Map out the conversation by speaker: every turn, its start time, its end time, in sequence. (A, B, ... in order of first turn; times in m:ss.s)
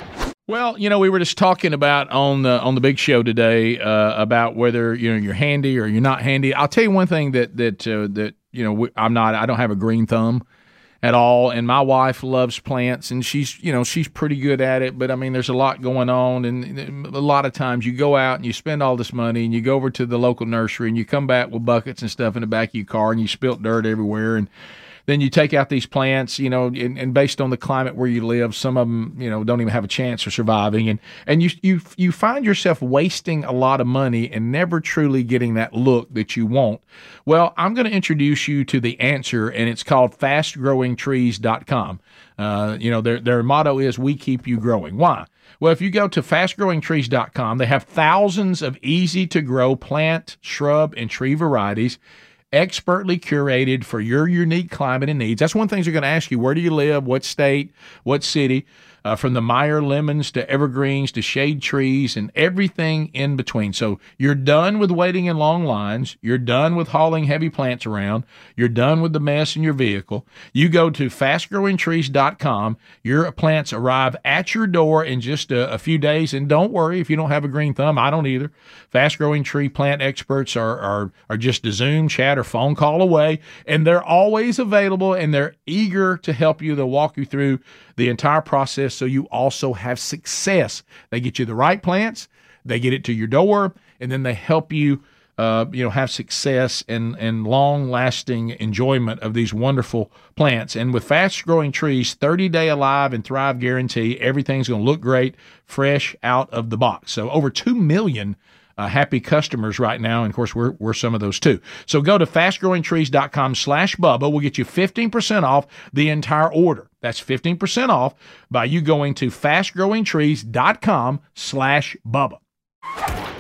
0:00.5-0:10.4 A
0:11.0-0:24.5 A
0:25.1-0:52.0 A
0:52.5-2:02.4 A